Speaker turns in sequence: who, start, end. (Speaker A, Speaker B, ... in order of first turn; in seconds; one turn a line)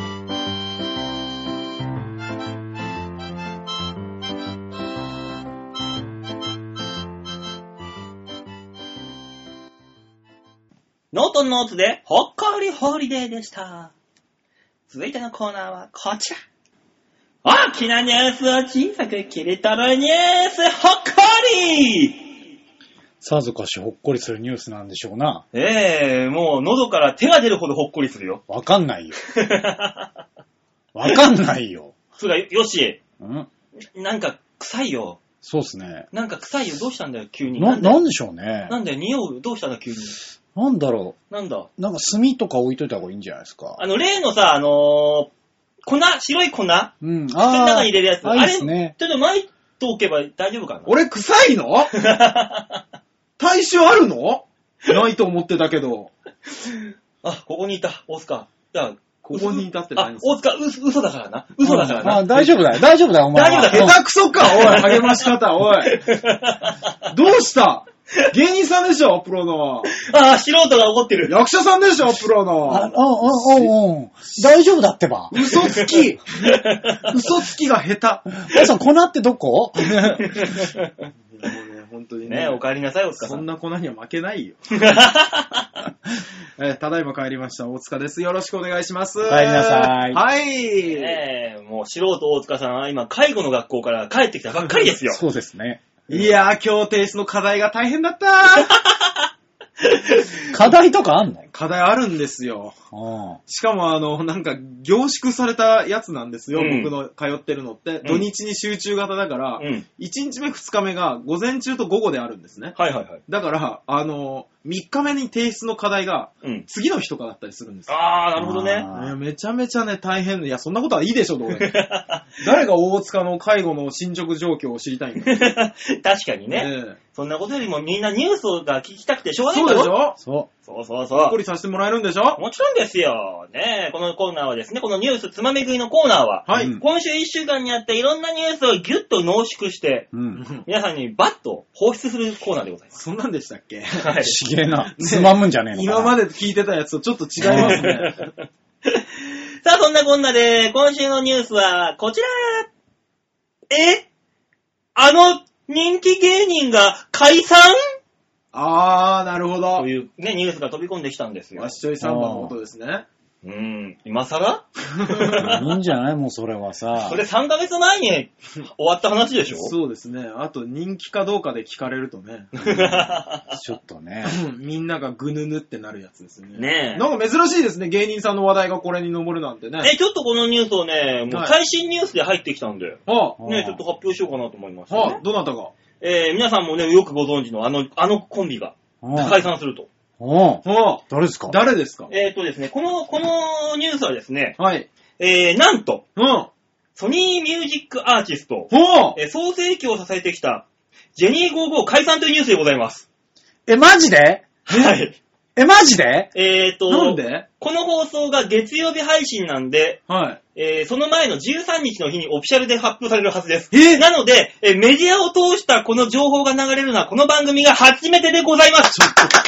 Speaker A: 11.1-13.9
Speaker A: 14.9-16.4
Speaker A: 17.4-22.3
Speaker B: 23.2-25.4
Speaker A: 25.5-28.4
Speaker B: 28.5-29.2
Speaker A: 29.3-30.1
Speaker B: 30.9-31.9
Speaker A: 32.2-33.0
Speaker B: 33.2-33.5
Speaker A: 33.9-35.2
Speaker B: 35.4-36.1
Speaker A: 36.1-38.0
Speaker B: 37.6-38.8
Speaker A: 38.7-40.2
Speaker B: 40.5-41.1
Speaker A: 41.3-41.7
Speaker B: 41.8-43.8
Speaker A: 43.8-45.3
Speaker A: 45.9-50.9
Speaker B: 47.0-48.9
Speaker C: 50.9-51.9
Speaker A: 51.9-52.8
Speaker C: 53.4-56.1
Speaker A: 56.6-62.5
Speaker C: 59.3-60.3
Speaker B: 61.6-64.0
Speaker A: 63.3-66.9
Speaker C: 63.7-65.9
Speaker C: 67.1-69.9
Speaker A: 69.9-71.4
Speaker C: 71.3-73.7
Speaker B: 72.7-75.5
Speaker C: 75.3-76.3
Speaker A: 76.4-77.2
Speaker C: 77.0-78.3
Speaker B: 78.5-80.4
Speaker A: 80.2-80.9
Speaker C: 81.3-82.6
Speaker A: 82.3-83.4
Speaker C: 83.2-84.6
Speaker A: 84.7-85.7
Speaker C: 86.6-91.2
Speaker B: 89.2-90.2
Speaker A: 90.9-95.2
Speaker B: 95.0-95.8
Speaker C: 96.1-98.7
Speaker A: 98.9-99.1
Speaker A: 99.8-100.4
Speaker B: 100.5-101.5
Speaker C: 101.5-102.7
Speaker B: 102.9-103.4
Speaker C: 103.5-112.8
Speaker A: 106.5-106.9
Speaker A: 108.0-108.3
Speaker A: 109.6-109.8
Speaker A: 112.7-113.2
Speaker C: 113.3-117.9
Speaker A: 117.9-118.9
Speaker B: 118.4-119.2
Speaker C: 118.9-121.8
Speaker A: 121.6-122.3
Speaker C: 122.4-125.4
Speaker A: 125.2-129.9
Speaker C: 126.5-127.0
Speaker C: 129.5-130.2
Speaker B: 130.2-130.5
Speaker A: 130.7-131.4
Speaker C: 131.1-132.4
Speaker A: 132.4-140.1
Speaker C: 136.4-136.8
Speaker B: 136.5-136.8
Speaker B: 140.1-140.4
Speaker C: 140.3-140.6
Speaker A: 140.6-142.9
Speaker C: 142.9-144.2
Speaker A: 144.0-144.4
Speaker B: 144.2-146.2
Speaker C: 144.8-148.3
Speaker B: 147.4-147.9
Speaker A: 147.4-148.3
Speaker A: 148.9-152.7
Speaker A: 153.7-154.1
Speaker A: 154.9-157.8
Speaker C: 158.5-159.9
Speaker A: 159.8-161.8
Speaker C: 161.6-163.1
Speaker B: 162.0-162.5
Speaker A: 163.4-165.6
Speaker C: 164.9-165.5
Speaker B: 165.4-167.2
Speaker A: 167.0-169.7
Speaker C: 169.5-172.6
Speaker A: 172.6-173.6
Speaker B: 173.5-174.4
Speaker C: 174.2-179.9
Speaker A: 176.6-177.1
Speaker A: 179.8-185.2
Speaker C: 181.3-181.6
Speaker C: 183.1-183.4
Speaker B: 183.4-183.8
Speaker C: 184.9-185.7
Speaker A: 186.0-189.9
Speaker B: 189.0-189.4
Speaker B: 190.2-191.6
Speaker C: 190.6-192.1
Speaker A: 192.1-194.6
Speaker C: 194.6-194.9
Speaker A: 195.2-196.1
Speaker C: 196.2-196.5
Speaker A: 196.9-200.6
Speaker C: 198.7-199.2
Speaker A: 201.2-203.1
Speaker B: 203.7-204.4
Speaker A: 204.7-205.2
Speaker B: 205.6-206.3
Speaker A: 206.3-210.0
Speaker C: 206.9-207.4
Speaker C: 210.1-210.4
Speaker A: 210.6-219.1
Speaker C: 213.7-214.1
Speaker C: 218.9-219.3